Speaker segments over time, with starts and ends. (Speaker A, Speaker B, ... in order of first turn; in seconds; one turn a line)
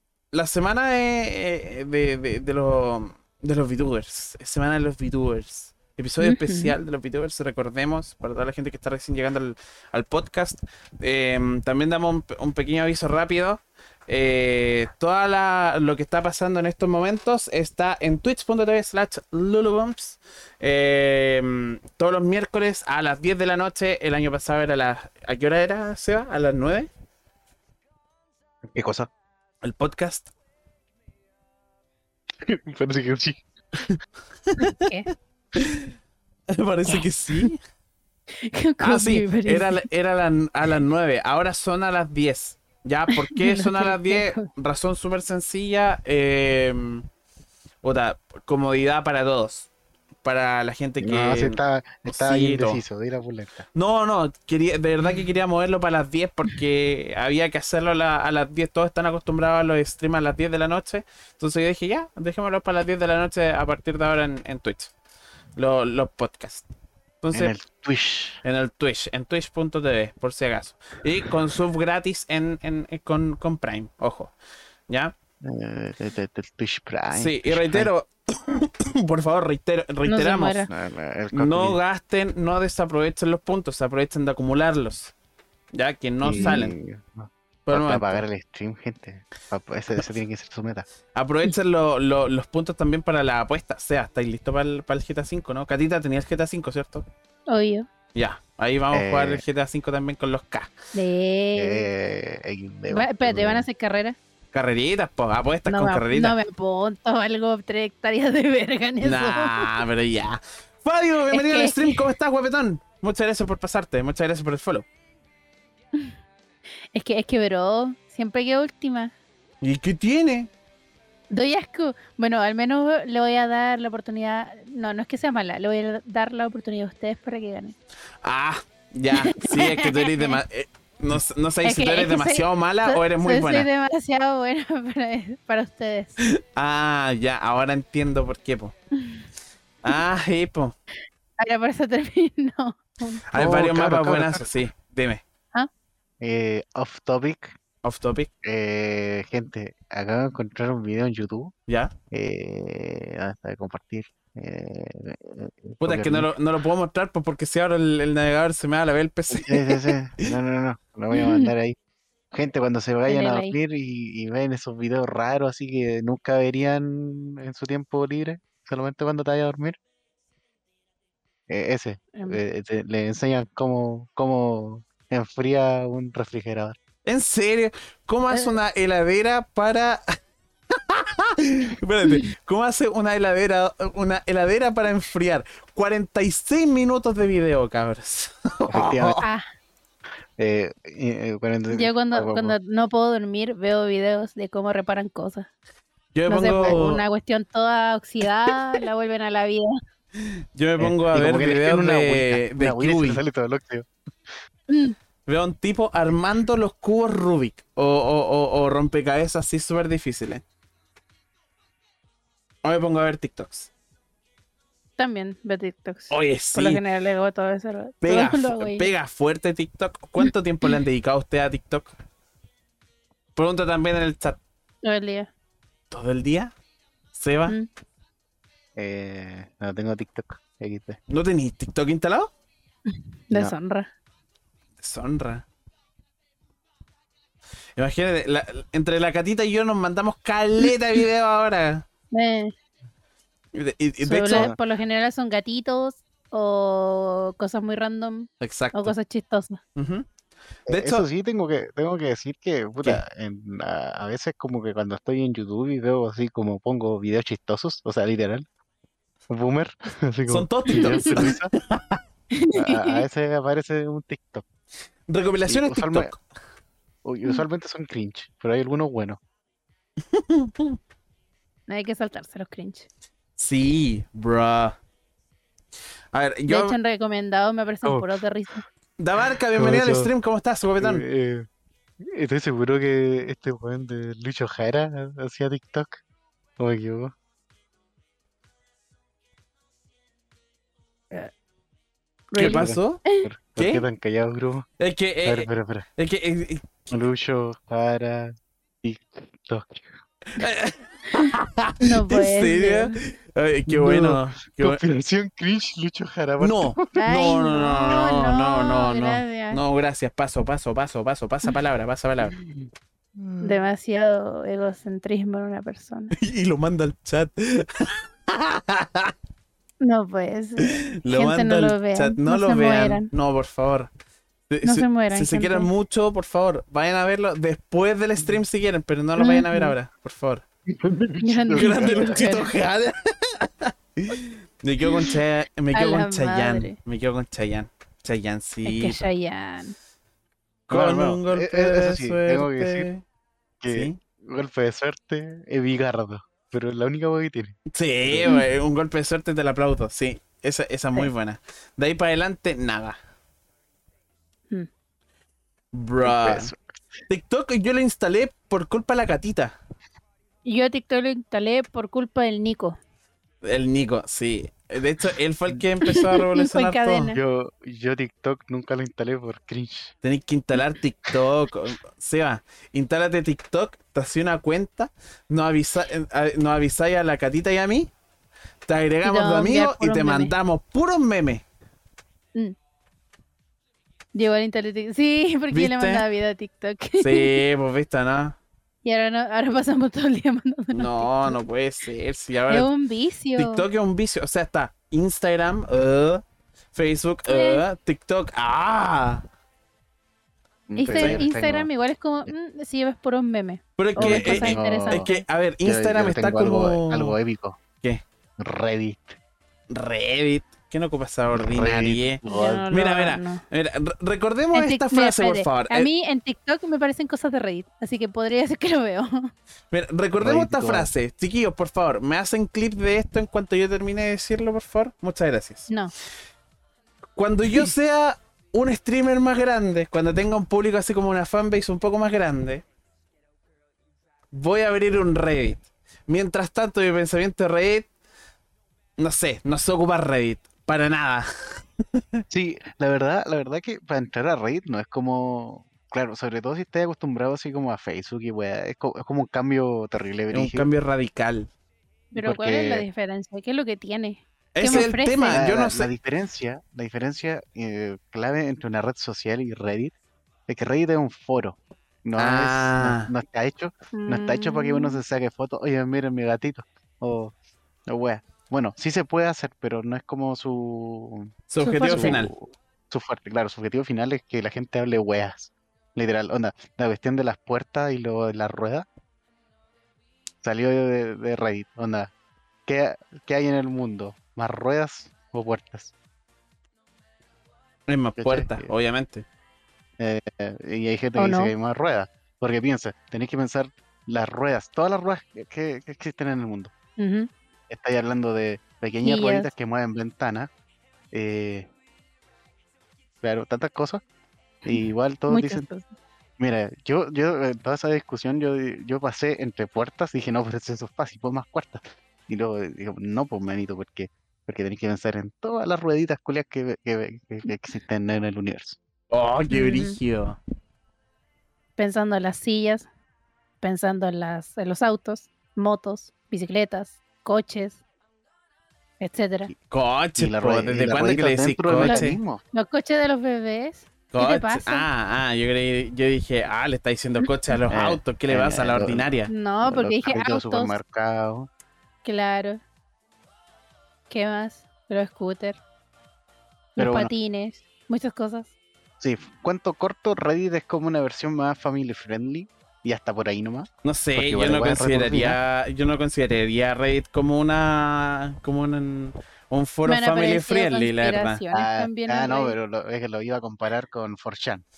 Speaker A: 0.3-26.9
Speaker B: 6.2-6.7
Speaker C: 28.6-29.1
Speaker A: 29.6-30.3
Speaker C: 32.4-33.9
Speaker A: 34.5-34.9
Speaker B: 34.6-35.1
Speaker A: 35.5-35.9
Speaker A: 36.5-37.6
Speaker B: 36.9-37.5
Speaker B: 38.4-39.9
Speaker A: 38.8-47.0
Speaker B: 43.1-44.5
Speaker A: 47.8-49.7
Speaker A: 50.2-52.8
Speaker C: 51.0-53.6
Speaker A: 53.7-64.9
Speaker A: 65.5-66.6
Speaker A: 67.2-67.5
Speaker C: 67.3-68.4
Speaker A: 68.4-74.3
Speaker A: 74.9-75.1
Speaker C: 75.4-77.9
Speaker A: 77.1-80.6
Speaker B: 80.0-80.7
Speaker C: 80.7-81.8
Speaker A: 81.3-85.1
Speaker A: 85.7-86.7
Speaker C: 86.2-90.8
Speaker A: 87.7-88.2
Speaker A: 91.1-97.0
Speaker B: 97.5-97.9
Speaker A: 98.1-100.7
Speaker C: 98.9-99.4
Speaker B: 100.9-101.9
Speaker C: 101.5-103.7
Speaker B: 102.9-104.2
Speaker A: 104.5-106.4
Speaker B: 105.7-109.8
Speaker A: 109.0-114.8
Speaker B: 111.3-112.1
Speaker B: 116.9-119.1
Speaker A: 119.6-120.5
Speaker B: 121.3-127.8
Speaker A: 128.2-133.7
Speaker B: 129.1-130.4
Speaker B: 131.6-136.2
Speaker A: 136.2-138.7
Speaker B: 139.0-139.2
Speaker A: 139.8-140.7
Speaker B: 141.4-143.2
Speaker A: 143.3-145.2
Speaker C: 143.3-144.6
Speaker C: 146.2-147.6
Speaker A: 147.8-148.3
Speaker C: 148.4-151.5
Speaker A: 151.7-151.9
Speaker C: 152.1-156.3
Speaker A: 155.8-160.3
Speaker C: 159.3-161.8
Speaker B: 161.1-161.5
Speaker C: 162.3-169.8
Speaker B: 163.1-163.5
Speaker C: 171.5-176.8
Speaker B: 172.1-172.4
Speaker A: 177.1-180.0
Speaker A: 180.7-189.2
Speaker C: 188.7-189.2
Speaker B: 189.2-189.4
Speaker C: 190.4-192.5
Speaker B: 191.7-195.5
Speaker A: 196.1-197.0
Speaker B: 196.3-199.7
Speaker A: 200.1-203.2
Speaker C: 200.8-203.9
Speaker B: 204.7-204.9
Speaker A: 205.2-210.4
Speaker A: 212.6-213.7
Speaker B: 215.0-218.9
Speaker A: 216.1-216.8
Speaker A: 218.0-221.9
Speaker A: 223.3-224.4
Speaker B: 224.8-225.3
Speaker A: 225.9-226.5
Speaker A: 227.1-227.6
Speaker C: 228.8-231.0
Speaker A: 231.1-232.3
Speaker B: 232.9-233.9
Speaker A: 234.8-235.4
Speaker A: 237.8-241.8
Speaker B: 242.1-242.5
Speaker A: 243.5-244.5
Speaker B: 244.0-249.6
Speaker C: 244.3-244.6
Speaker A: 248.4-248.9
Speaker A: 249.8-250.1
Speaker A: 250.7-251.0
Speaker C: 250.7-258.4
Speaker C: 259.3-261.5
Speaker A: 260.3-262.0
Speaker B: 260.7-261.3
Speaker B: 262.3-263.0
Speaker C: 262.5-264.4
Speaker A: 265.1-266.2
Speaker C: 265.5-266.1
Speaker C: 267.0-269.2
Speaker A: 270.1-270.8
Speaker B: 271.7-272.9
Speaker A: 273.4-274.8
Speaker A: 276.1-276.8
Speaker B: 276.5-278.6
Speaker C: 277.8-278.2
Speaker A: 279.0-281.0
Speaker C: 279.5-280.1
Speaker C: 280.8-281.5
Speaker C: 282.0-286.0
Speaker C: 286.6-287.1
Speaker B: 292.3-293.3
Speaker A: 292.4-293.0
Speaker C: 292.4-294.6
Speaker A: 293.6-293.8
Speaker A: 294.8-296.7
Speaker C: 295.2-295.9
Speaker C: 296.9-300.0
Speaker A: 300.3-304.8
Speaker B: 301.1-303.0
Speaker C: 303.7-306.9
Speaker A: 306.4-312.4
Speaker B: 306.9-309.6
Speaker C: 312.4-313.6
Speaker B: 313.4-316.1
Speaker A: 316.1-319.1
Speaker B: 319.8-323.1
Speaker A: 320.6-323.9
Speaker A: 324.5-330.4
Speaker B: 324.6-325.7
Speaker B: 329.2-329.7
Speaker C: 330.7-332.2
Speaker B: 331.2-332.5
Speaker A: 331.6-339.0
Speaker B: 334.9-335.1
Speaker B: 335.7-336.8
Speaker B: 338.6-339.8
Speaker A: 340.7-343.0
Speaker C: 340.7-342.9
Speaker C: 343.6-348.4
Speaker A: 343.7-344.0
Speaker A: 347.7-353.0
Speaker A: 355.7-356.5
Speaker C: 356.0-356.7
Speaker A: 357.1-359.6
Speaker B: 360.4-362.8
Speaker A: 363.4-367.1
Speaker B: 365.8-367.2
Speaker C: 367.1-369.9
Speaker A: 370.0-377.9
Speaker A: 378.6-381.4
Speaker B: 379.0-380.3
Speaker B: 384.1-387.4
Speaker A: 385.5-386.1
Speaker A: 387.0-388.4
Speaker B: 388.8-391.4
Speaker A: 390.7-392.7
Speaker B: 392.5-393.6
Speaker A: 393.4-396.2
Speaker A: 396.7-399.2
Speaker B: 397.3-397.6
Speaker C: 400.7-401.7
Speaker B: 400.8-405.2
Speaker A: 400.8-401.2
Speaker A: 403.8-407.2
Speaker C: 403.9-405.1
Speaker C: 405.6-407.6
Speaker C: 408.4-409.2
Speaker A: 409.7-415.9
Speaker C: 411.3-412.6
Speaker B: 412.2-413.4
Speaker B: 414.5-419.3
Speaker A: 419.7-425.7
Speaker C: 420.2-420.9
Speaker A: 427.1-432.6
Speaker A: 434.3-437.9
Speaker A: 439.0-442.2
Speaker C: 442.3-450.7
Speaker A: 450.3-451.5
Speaker B: 452.1-455.4
Speaker C: 452.2-452.8
Speaker A: 454.5-455.9
Speaker C: 454.7-459.9
Speaker C: 460.5-467.3
Speaker A: 462.2-463.1
Speaker B: 463.9-465.0
Speaker C: 467.9-478.9
Speaker A: 471.5-472.3
Speaker B: 471.6-472.2
Speaker C: 480.4-482.1
Speaker C: 482.6-485.9
Speaker A: 487.9-489.2
Speaker C: 488.2-488.7
Speaker C: 490.0-496.7
Speaker B: 491.1-491.5
Speaker B: 497.0-497.3
Speaker C: 497.7-500.5
Speaker B: 499.0-499.5
Speaker C: 501.1-501.7
Speaker C: 503.2-504.0
Speaker C: 504.6-505.6
Speaker B: 505.3-505.9
Speaker C: 506.4-518.8
Speaker A: 519.1-520.4
Speaker B: 519.5-520.0
Speaker B: 521.8-522.9
Speaker B: 523.6-527.8
Speaker B: 529.0-529.5
Speaker A: 529.7-532.2
Speaker C: 530.1-532.4
Speaker B: 531.8-534.8
Speaker A: 534.1-539.3
Speaker C: 537.7-539.0
Speaker B: 539.3-540.8
Speaker C: 539.6-541.5
Speaker B: 542.0-542.6
Speaker B: 544.1-545.6
Speaker B: 546.8-548.5
Speaker C: 546.8-547.1
Speaker C: 549.0-555.4
Speaker A: 553.8-561.4
Speaker B: 559.8-562.5
Speaker C: 561.5-564.6